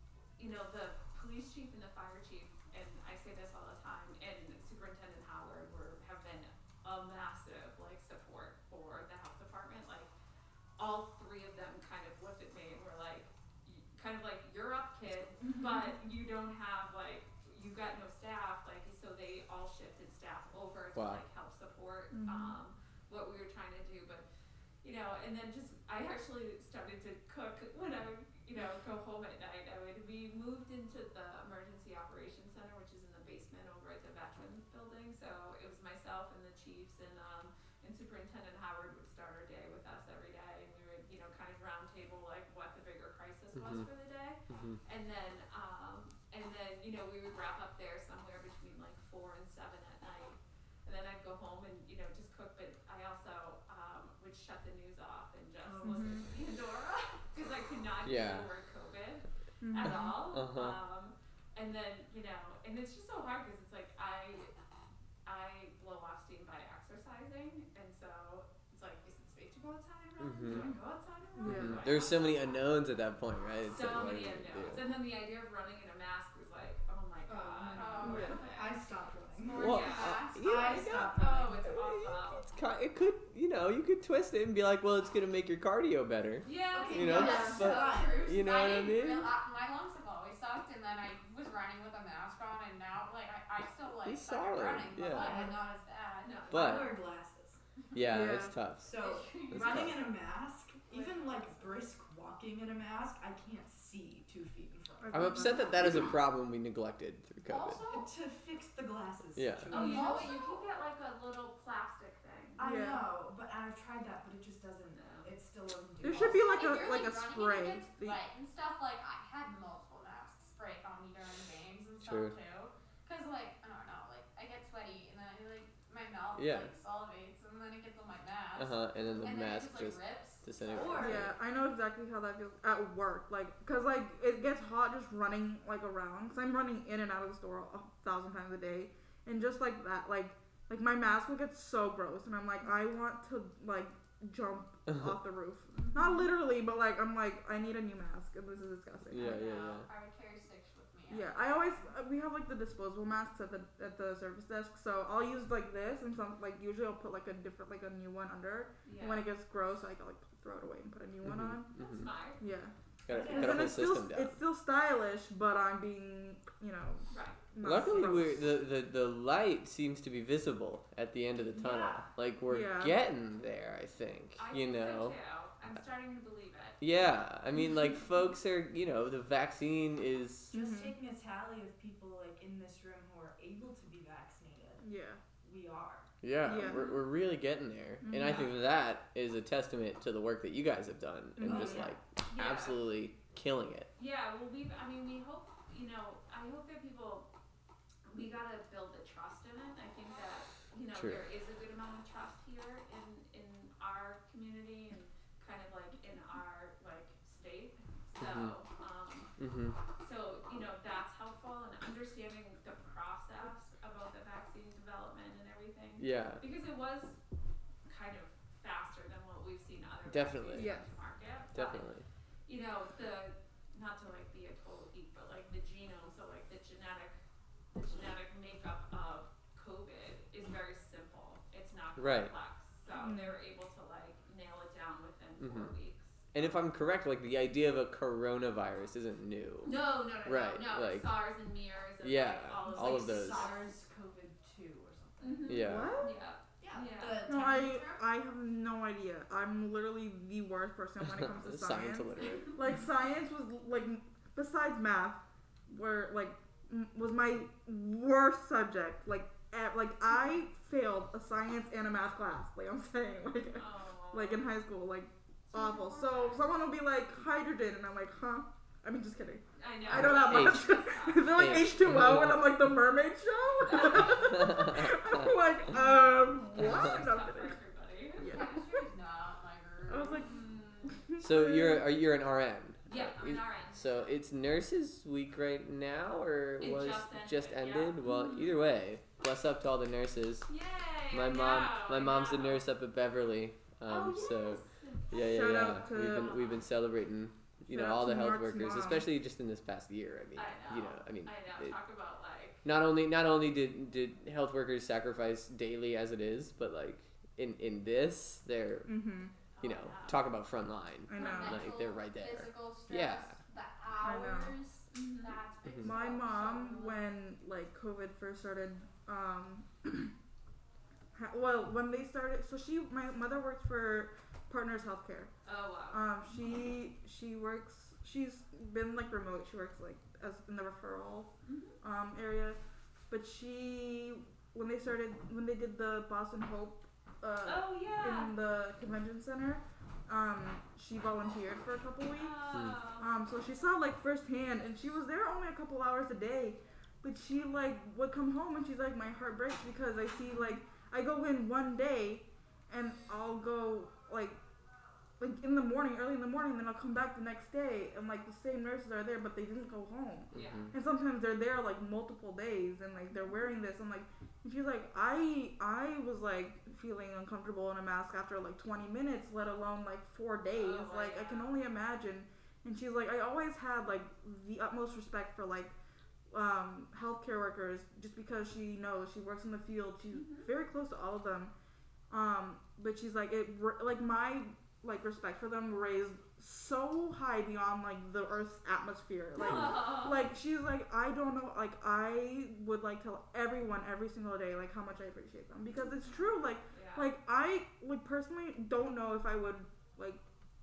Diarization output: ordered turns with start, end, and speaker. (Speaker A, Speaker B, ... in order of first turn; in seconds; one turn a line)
Speaker A: 0.4-10.1
Speaker A: 10.8-24.2
Speaker B: 15.4-15.8
Speaker C: 20.9-21.2
Speaker B: 22.1-22.6
Speaker A: 24.8-64.5
Speaker C: 43.5-43.9
Speaker C: 44.5-44.8
Speaker D: 55.6-56.3
Speaker B: 55.8-56.2
Speaker C: 58.0-58.5
Speaker B: 59.6-60.1
Speaker C: 59.9-60.8
Speaker A: 65.2-72.7
Speaker C: 70.2-70.7
Speaker B: 71.4-71.8
Speaker C: 71.4-74.8
Speaker A: 73.7-78.8
Speaker D: 77.3-81.7
Speaker E: 77.7-78.4
Speaker B: 78.0-78.4
Speaker E: 79.5-80.8
Speaker C: 79.5-89.3
Speaker A: 79.6-80.2
Speaker A: 80.9-82.5
Speaker A: 86.4-87.4
Speaker D: 86.7-88.5
Speaker E: 86.9-96.5
Speaker B: 87.2-87.7
Speaker C: 94.0-95.4
Speaker D: 95.1-95.7
Speaker A: 96.2-97.0
Speaker C: 96.5-96.9
Speaker D: 96.5-97.6
Speaker C: 97.9-98.9
Speaker B: 98.1-98.6
Speaker D: 98.8-106.1
Speaker E: 99.0-100.2
Speaker C: 99.5-100.0
Speaker E: 100.9-101.8
Speaker B: 105.0-106.1
Speaker C: 105.1-107.8
Speaker E: 107.5-108.1
Speaker D: 107.9-110.3
Speaker C: 109.4-109.7
Speaker A: 109.7-112.6
Speaker E: 109.7-110.6
Speaker D: 112.6-116.6
Speaker B: 112.6-113.0
Speaker A: 114.9-115.3
Speaker B: 116.0-118.2
Speaker E: 116.2-131.2
Speaker C: 122.0-122.3
Speaker C: 126.4-126.7
Speaker C: 128.6-131.3
Speaker D: 130.7-131.3
Speaker B: 131.0-149.4
Speaker A: 146.0-146.2
Speaker C: 149.1-149.9
Speaker E: 149.3-151.9
Speaker B: 151.1-161.7
Speaker A: 158.8-159.3
Speaker C: 161.2-162.1
Speaker A: 161.8-162.4
Speaker B: 162.4-168.5
Speaker C: 163.1-164.4
Speaker D: 163.1-163.9
Speaker A: 167.1-167.4
Speaker C: 167.6-175.2
Speaker D: 171.6-172.1
Speaker B: 172.5-173.0
Speaker A: 174.4-176.8
Speaker C: 176.8-180.5
Speaker D: 180.5-184.9
Speaker B: 180.5-180.9
Speaker B: 184.8-185.2
Speaker D: 185.4-186.1
Speaker C: 186.2-193.9
Speaker B: 186.4-187.0
Speaker B: 188.0-188.5
Speaker B: 191.4-191.9
Speaker D: 191.5-191.9
Speaker A: 192.3-192.8
Speaker A: 194.0-197.3
Speaker A: 198.1-209.3
Speaker C: 200.9-201.2
Speaker C: 208.2-208.5
Speaker C: 209.4-209.8
Speaker A: 210.0-217.2
Speaker C: 216.0-216.4
Speaker A: 217.9-221.9
Speaker C: 220.1-220.8
Speaker B: 220.6-220.9
Speaker C: 221.5-222.1
Speaker A: 222.5-227.2
Speaker A: 227.7-236.6
Speaker C: 232.0-232.3
Speaker B: 233.0-233.4
Speaker C: 235.4-235.7
Speaker C: 236.3-241.1
Speaker A: 239.6-243.8
Speaker C: 242.0-243.5
Speaker D: 242.7-245.5
Speaker A: 245.2-247.3
Speaker C: 245.5-246.0
Speaker B: 245.6-246.1
Speaker D: 246.6-248.0
Speaker B: 247.2-277.6
Speaker C: 251.0-252.6
Speaker A: 263.5-264.5
Speaker E: 265.5-266.4
Speaker A: 265.8-266.4
Speaker A: 269.6-272.1
Speaker C: 269.9-272.6
Speaker A: 273.6-274.5
Speaker C: 274.0-275.4
Speaker A: 275.7-278.5
Speaker C: 276.6-276.9
Speaker B: 278.2-278.8
Speaker E: 278.2-280.3
Speaker B: 279.9-280.3
Speaker A: 280.2-281.0
Speaker B: 280.9-281.9
Speaker C: 281.2-290.5
Speaker A: 282.9-284.2
Speaker A: 286.6-288.6
Speaker A: 290.5-292.6
Speaker C: 291.1-301.8
Speaker A: 293.9-296.6
Speaker B: 295.1-296.4
Speaker B: 297.7-299.1
Speaker A: 300.4-302.7
Speaker C: 302.6-308.9
Speaker B: 308.9-309.3
Speaker A: 309.6-310.3
Speaker C: 309.6-313.4
Speaker B: 311.1-311.7
Speaker E: 311.1-317.1
Speaker B: 314.0-314.6
Speaker A: 314.9-315.4
Speaker C: 315.6-315.9
Speaker B: 315.8-320.1
Speaker B: 321.1-325.3
Speaker A: 325.4-326.1
Speaker B: 325.9-354.4
Speaker A: 331.4-331.8
Speaker A: 337.4-338.4
Speaker A: 342.1-343.1
Speaker B: 355.2-375.8
Speaker C: 360.3-360.7
Speaker A: 360.3-360.7
Speaker A: 370.5-371.6
Speaker B: 376.3-381.5
Speaker A: 380.1-380.5
Speaker B: 382.1-400.2
Speaker A: 389.4-390.3
Speaker A: 396.7-397.1